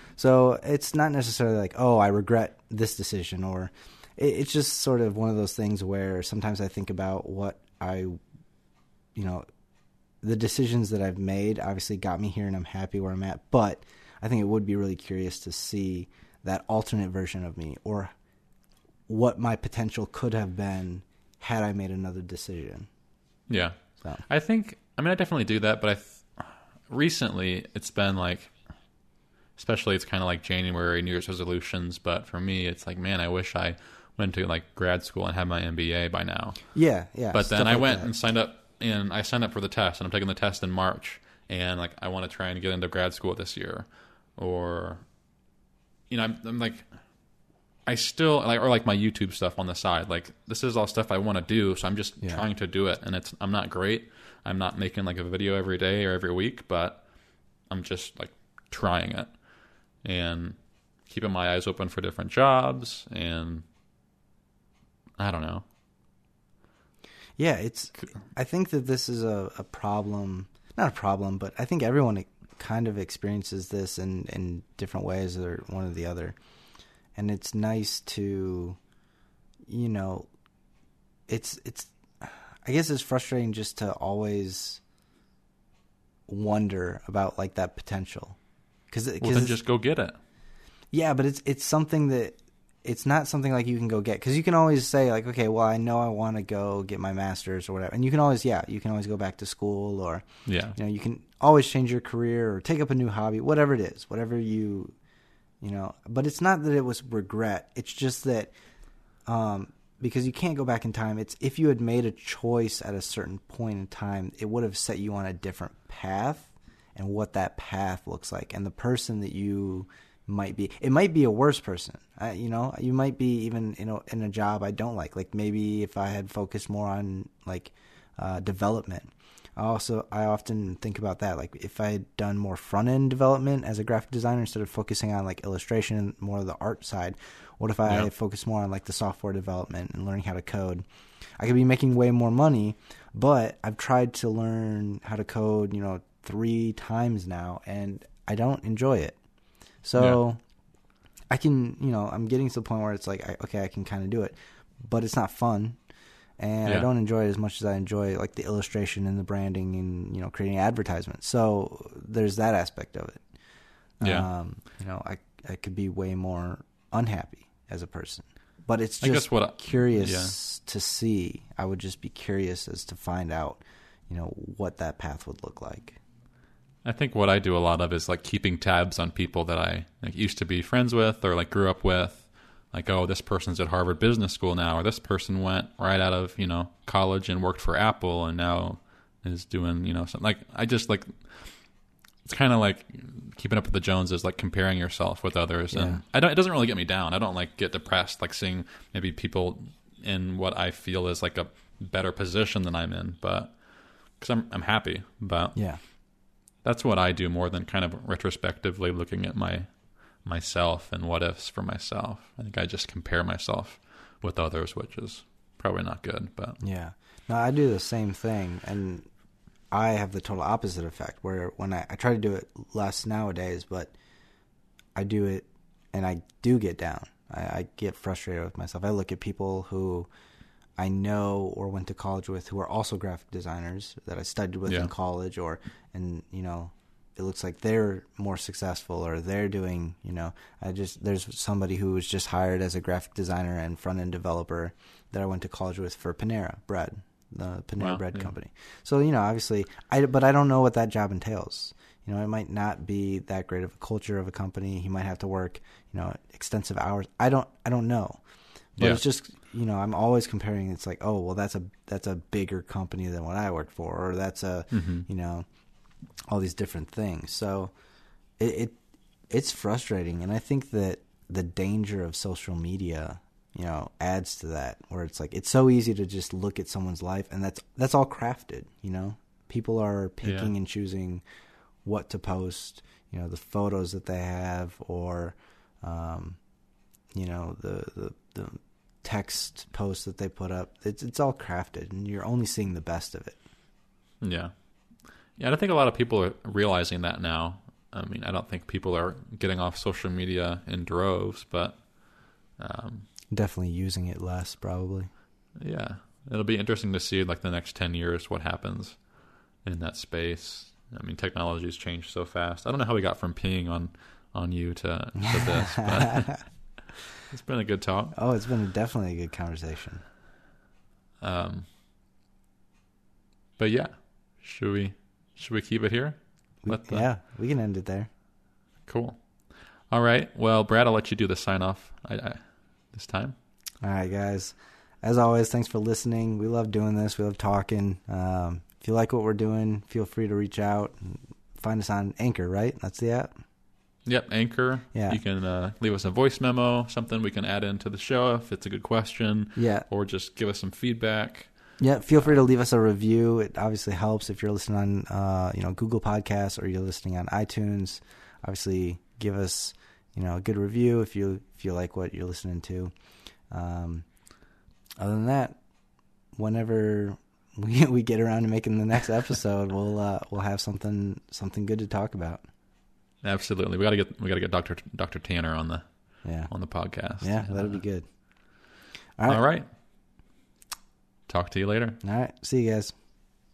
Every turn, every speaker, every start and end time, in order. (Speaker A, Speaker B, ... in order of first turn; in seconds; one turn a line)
Speaker A: 0.2-8.2
Speaker A: 9.2-9.4
Speaker A: 10.2-18.1
Speaker A: 19.1-22.9
Speaker B: 23.5-28.5
Speaker B: 29.6-36.6
Speaker A: 36.8-38.1
Speaker B: 37.3-45.0
Speaker B: 46.1-46.9
Speaker B: 47.9-57.0
Speaker B: 57.7-59.3
Speaker B: 60.0-60.6
Speaker B: 61.1-63.6
Speaker B: 65.2-65.7
Speaker A: 67.4-76.4
Speaker A: 77.2-78.8
Speaker A: 79.7-80.3
Speaker A: 81.3-84.8
Speaker A: 86.3-88.4
Speaker A: 88.9-89.6
Speaker B: 89.2-90.2
Speaker A: 90.9-105.0
Speaker B: 100.5-100.8
Speaker A: 105.6-108.5
Speaker A: 109.3-140.8
Speaker A: 141.4-149.2
Speaker A: 149.8-150.4
Speaker A: 151.3-155.8
Speaker A: 156.4-163.2
Speaker A: 164.0-176.0
Speaker B: 169.0-170.3
Speaker B: 176.8-191.5
Speaker B: 192.2-203.6
Speaker A: 195.7-196.0
Speaker B: 204.2-205.6
Speaker B: 206.6-209.7
Speaker B: 210.2-216.6
Speaker A: 216.6-219.1
Speaker A: 219.7-223.9
Speaker A: 224.9-230.1
Speaker A: 230.8-258.2
Speaker B: 247.8-248.3
Speaker A: 258.8-265.5
Speaker B: 264.7-265.1
Speaker A: 266.3-267.7
Speaker A: 268.4-268.8
Speaker A: 269.3-281.2
Speaker B: 280.2-280.5
Speaker A: 281.9-286.4
Speaker A: 287.1-293.4
Speaker B: 294.2-294.5
Speaker B: 295.4-301.9
Speaker B: 302.6-303.1
Speaker A: 303.3-305.1
Speaker B: 305.6-309.1
Speaker B: 309.6-316.4
Speaker A: 315.2-316.3
Speaker B: 317.3-318.1
Speaker A: 318.1-320.0
Speaker B: 321.2-321.7
Speaker B: 323.6-327.1
Speaker A: 326.6-328.1
Speaker B: 328.9-329.2
Speaker B: 329.9-332.4
Speaker B: 332.9-333.4
Speaker A: 333.8-343.4
Speaker B: 344.1-351.5
Speaker A: 344.9-345.2
Speaker A: 349.6-349.9
Speaker A: 351.8-362.9
Speaker A: 363.5-364.1
Speaker A: 365.0-365.6
Speaker A: 366.4-372.4
Speaker B: 373.2-375.9
Speaker A: 376.2-376.5
Speaker B: 376.5-377.8
Speaker A: 377.2-378.1
Speaker B: 379.3-379.7
Speaker B: 381.3-382.0
Speaker A: 382.0-382.9